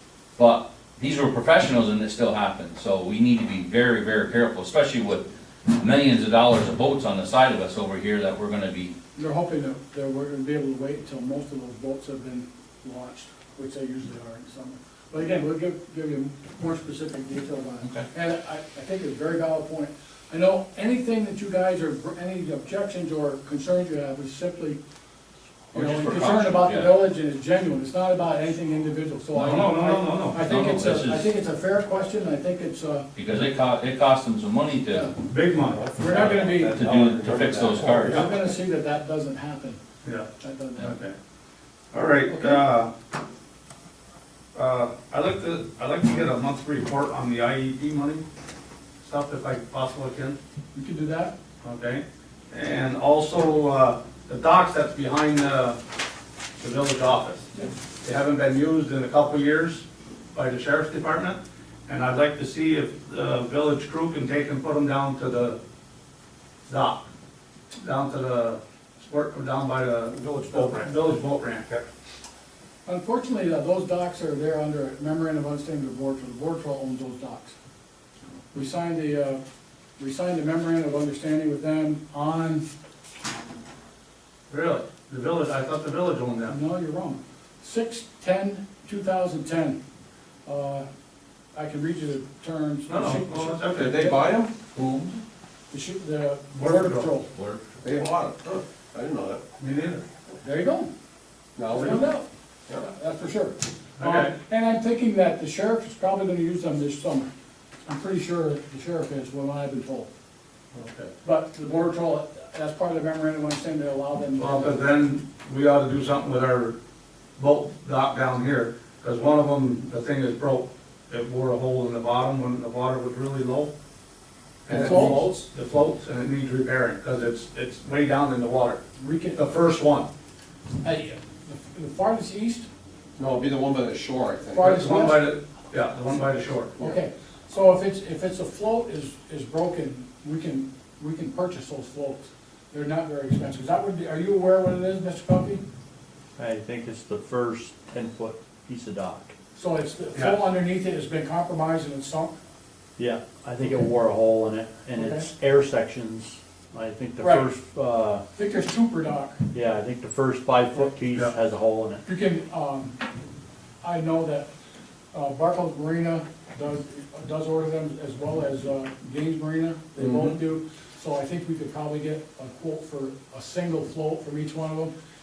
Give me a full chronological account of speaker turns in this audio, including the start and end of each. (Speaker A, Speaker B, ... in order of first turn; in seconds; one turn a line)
Speaker A: 0.3-9.0
Speaker B: 9.2-24.8
Speaker A: 25.7-27.0
Speaker B: 25.7-33.1
Speaker C: 29.3-30.4
Speaker A: 30.4-31.3
Speaker A: 33.2-35.1
Speaker C: 35.2-35.9
Speaker D: 35.7-38.3
Speaker B: 36.0-36.9
Speaker A: 36.1-38.3
Speaker B: 38.0-39.8
Speaker C: 40.0-41.1
Speaker B: 40.4-41.0
Speaker C: 41.9-42.9
Speaker B: 42.3-42.6
Speaker C: 44.5-48.2
Speaker C: 49.0-50.4
Speaker B: 50.7-51.3
Speaker C: 51.6-55.8
Speaker C: 56.6-57.5
Speaker C: 58.0-65.6
Speaker C: 66.7-67.1
Speaker C: 67.8-71.8
Speaker B: 70.4-71.0
Speaker B: 72.8-77.5
Speaker B: 78.5-79.4
Speaker B: 80.0-82.7
Speaker C: 84.5-86.6
Speaker B: 86.5-89.8
Speaker B: 90.5-90.9
Speaker B: 91.5-94.0
Speaker C: 92.9-94.2
Speaker D: 93.7-95.2
Speaker B: 95.7-97.3
Speaker C: 96.5-97.1
Speaker A: 97.3-97.6
Speaker D: 97.8-99.4
Speaker C: 99.6-100.0
Speaker B: 100.4-100.9
Speaker D: 101.6-102.1
Speaker B: 101.7-107.3
Speaker C: 101.8-102.0
Speaker C: 104.0-104.3
Speaker B: 107.9-110.1
Speaker B: 111.2-114.9
Speaker C: 114.4-116.8
Speaker C: 117.4-123.7
Speaker C: 124.7-128.8
Speaker B: 124.7-125.3
Speaker D: 124.7-125.4
Speaker B: 129.0-129.4
Speaker C: 129.4-130.1
Speaker B: 130.8-132.7
Speaker D: 133.2-134.8
Speaker B: 134.5-135.3
Speaker C: 134.6-136.8
Speaker B: 136.8-145.6
Speaker D: 146.4-149.2
Speaker E: 146.7-149.3
Speaker B: 149.6-152.4
Speaker C: 150.1-150.4
Speaker D: 153.0-154.9
Speaker E: 153.0-158.1
Speaker B: 154.9-155.3
Speaker D: 155.5-156.4
Speaker B: 157.2-157.5
Speaker D: 157.6-158.2
Speaker B: 158.3-159.4
Speaker E: 159.5-162.0
Speaker D: 159.6-162.0
Speaker B: 162.0-163.0
Speaker B: 163.8-164.5
Speaker B: 165.1-174.9